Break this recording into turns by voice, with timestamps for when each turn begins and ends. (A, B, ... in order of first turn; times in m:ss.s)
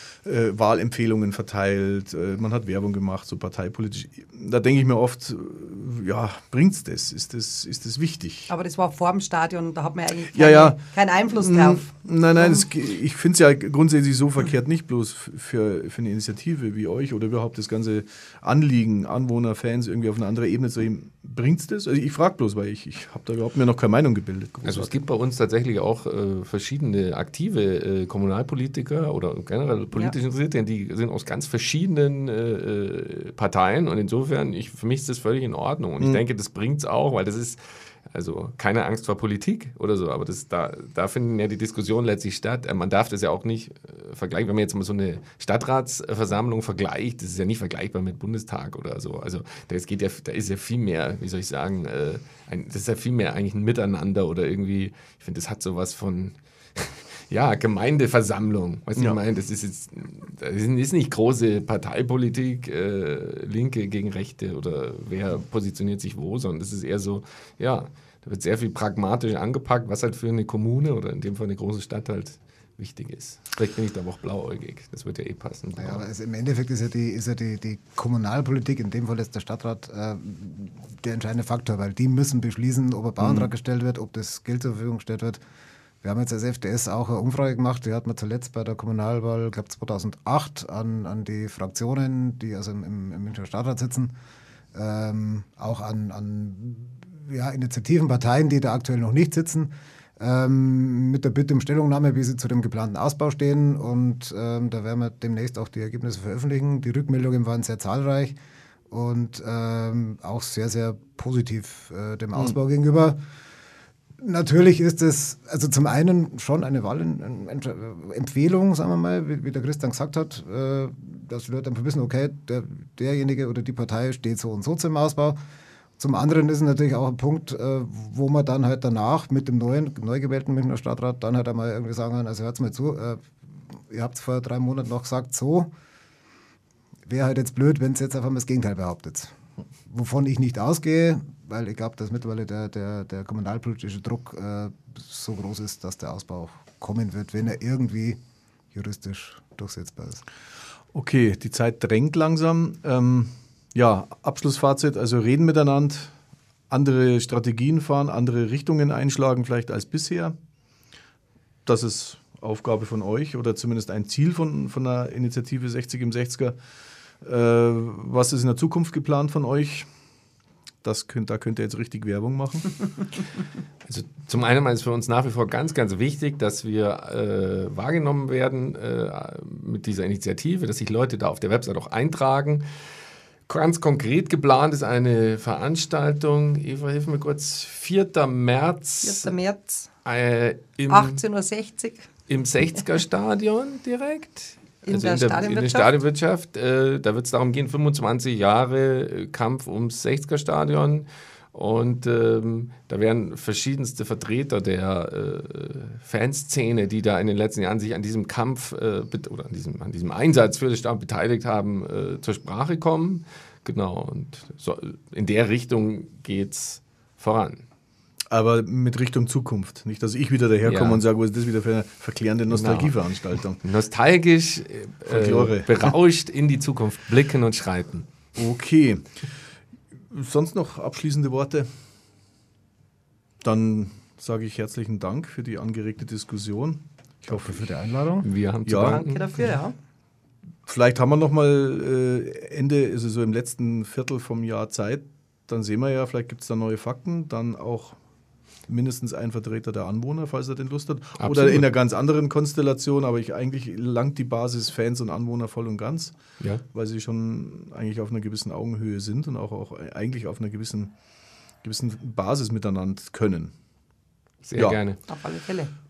0:00.2-0:08.5 A
0:08.5-0:12.6 B
0:10.3-0:24.9 A
0:24.6-0:37.6 C
0:38.1-1:16.0 C
1:15.8-1:25.4 D
1:23.2-1:23.5 A
1:26.0-1:34.1 D
1:34.7-1:48.4 D
1:48.9-1:53.2 D
1:54.2-2:05.4 D
2:06.0-2:15.7 D
2:17.1-2:19.3 D
2:19.9-2:28.2 D
2:28.7-2:30.2 D
2:30.9-2:36.1 A
2:36.7-2:40.4 A
2:41.6-2:46.6 A
2:47.2-2:49.9 A
2:50.8-2:52.7 A
2:53.9-3:02.6 C
3:03.5-3:09.3 C
3:09.0-3:09.9 B
3:10.0-3:11.2 C
3:10.9-3:12.0 B
3:12.3-3:37.6 C
3:14.8-3:15.9 B
3:38.3-3:43.6 A
3:40.6-3:41.0 C
3:42.5-3:42.9 C
3:43.6-3:48.1 C
3:45.1-3:45.9 A
3:48.4-3:49.2 A
3:50.1-3:51.7 A
3:53.4-3:57.8 A
3:57.2-3:58.3 D
3:58.2-3:59.6 C
3:58.6-3:59.0 A
3:58.9-3:59.7 B
4:00.6-4:08.0 A
4:08.7-4:16.1 A
4:11.2-4:11.7 C
4:16.7-4:20.9 A
4:21.6-4:23.5 A
4:24.4-4:25.0 C
4:25.1-4:25.7 B